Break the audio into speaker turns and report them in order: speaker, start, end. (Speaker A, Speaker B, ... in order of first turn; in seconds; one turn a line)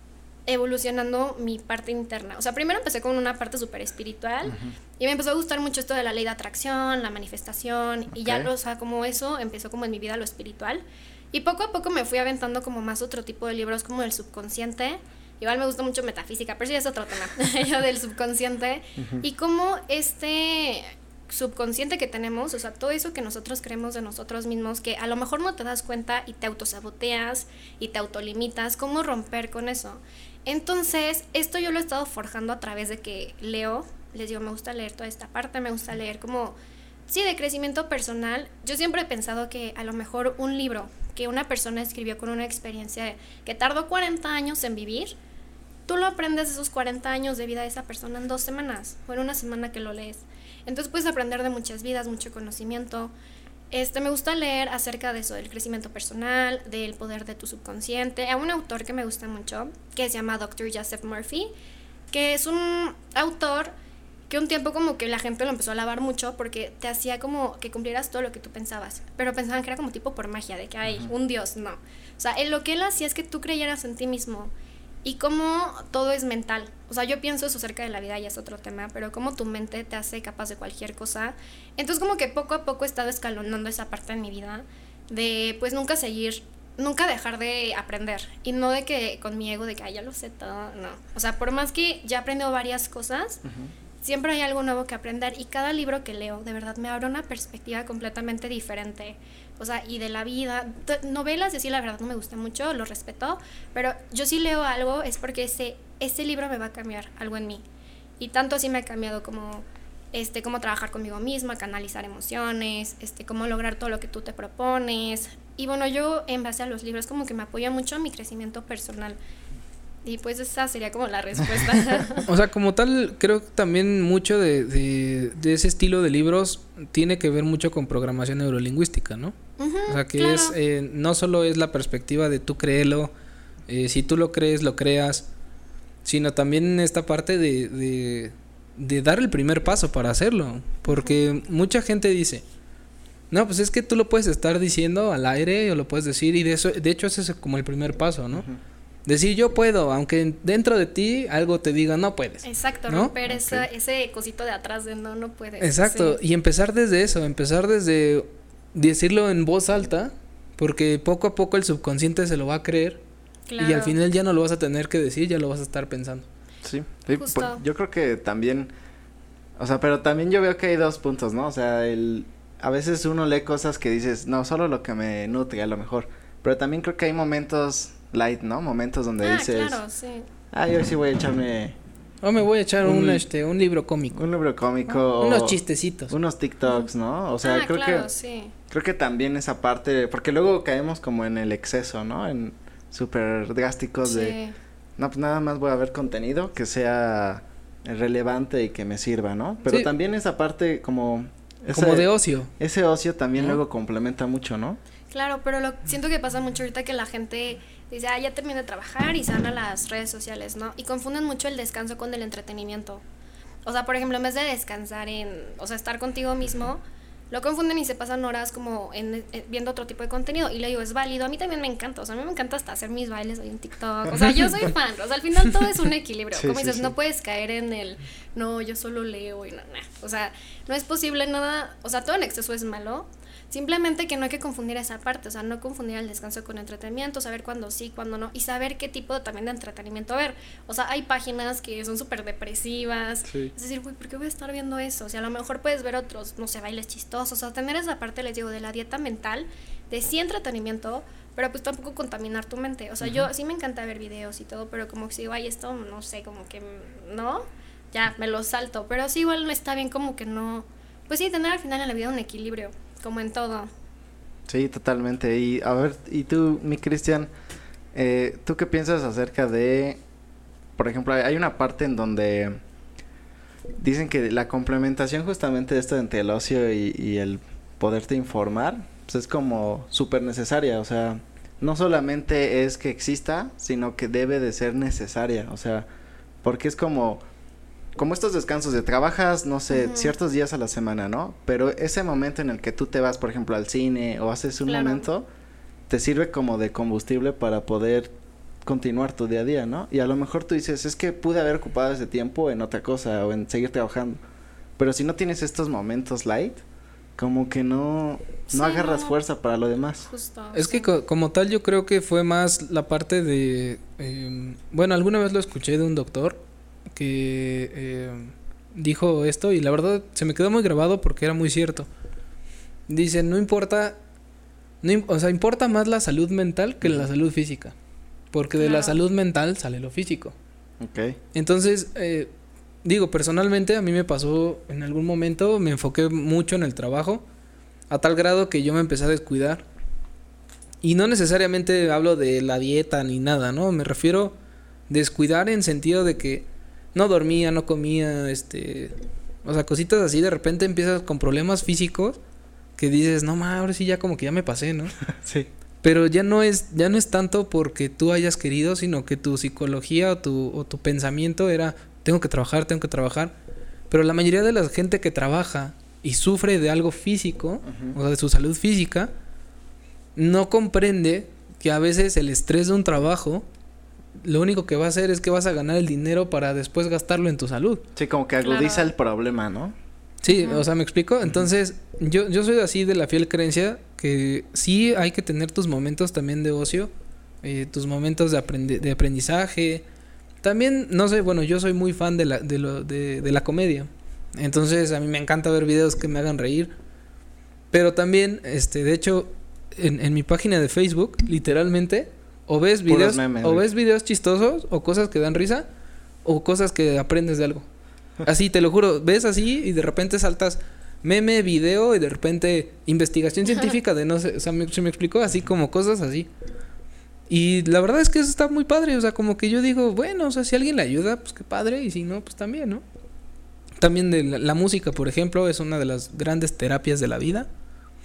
Speaker A: 0.5-36.6
Speaker B: 4.4-4.7
Speaker B: 8.1-8.5
Speaker B: 19.0-19.2
Speaker A: 37.1-45.1
Speaker A: 45.9-53.1
Speaker A: 53.7-61.5
Speaker A: 62.1-63.7
Speaker A: 64.3-74.5
Speaker B: 70.8-71.1
Speaker A: 75.0-93.4
Speaker B: 93.4-93.7
Speaker A: 94.0-107.6
Speaker A: 108.2-119.2
Speaker A: 120.0-122.2
Speaker C: 122.2-129.3
Speaker A: 129.6-130.5
Speaker C: 129.9-133.1
Speaker C: 133.7-135.2
Speaker C: 136.0-142.4
Speaker A: 140.8-141.2
Speaker C: 143.3-148.4
Speaker B: 148.3-148.6
Speaker C: 149.1-153.1
Speaker A: 152.4-156.2
Speaker B: 153.3-153.7
Speaker C: 155.6-163.0
Speaker A: 163.5-164.0
Speaker C: 163.6-166.2
Speaker B: 166.6-168.7
Speaker A: 167.2-167.6
Speaker B: 169.6-179.8
Speaker A: 179.2-180.3
Speaker B: 180.5-181.8
Speaker C: 182.2-184.2
Speaker B: 182.8-183.2
Speaker B: 184.1-185.6
Speaker C: 185.2-186.1
Speaker B: 186.1-188.1
Speaker A: 187.4-188.5
Speaker B: 188.7-194.3
Speaker A: 194.0-194.5
Speaker B: 195.0-204.8
Speaker C: 201.7-202.5
Speaker A: 205.1-213.0
Speaker A: 213.7-263.7
Speaker B: 226.3-226.9
Speaker B: 243.3-243.5
Speaker B: 253.0-253.3
Speaker B: 264.5-267.3
Speaker B: 267.9-270.0
Speaker B: 270.8-272.6
Speaker B: 273.8-285.9
Speaker B: 286.4-287.2
Speaker B: 287.9-295.3
Speaker A: 289.7-290.1
Speaker A: 294.6-295.1
Speaker B: 295.9-298.1
Speaker B: 298.6-304.2
Speaker B: 304.8-306.6
Speaker B: 307.2-310.1
Speaker A: 308.5-309.1
Speaker A: 310.1-310.9
Speaker C: 310.5-316.4
Speaker C: 316.9-321.9
Speaker C: 322.9-323.9
Speaker C: 324.8-327.7
Speaker C: 328.3-330.3
Speaker A: 328.6-329.0
Speaker B: 330.8-331.2
Speaker C: 331.3-332.3
Speaker C: 332.8-337.2
Speaker C: 337.9-339.6
Speaker C: 340.8-344.3
Speaker C: 344.9-352.2
Speaker C: 352.8-354.9
Speaker B: 355.1-355.5
Speaker C: 355.8-363.3
Speaker C: 363.9-369.1
Speaker B: 367.6-367.9
Speaker C: 370.1-373.4
Speaker C: 374.2-377.8
Speaker B: 377.9-379.7
Speaker A: 378.4-378.9
Speaker C: 380.2-386.9
Speaker A: 380.3-380.6
Speaker C: 387.4-389.8
Speaker C: 390.4-396.7
Speaker C: 397.7-405.6
Speaker B: 402.9-403.7
Speaker C: 406.2-407.6
Speaker C: 408.2-416.3
Speaker C: 417.3-422.8
Speaker C: 423.8-427.5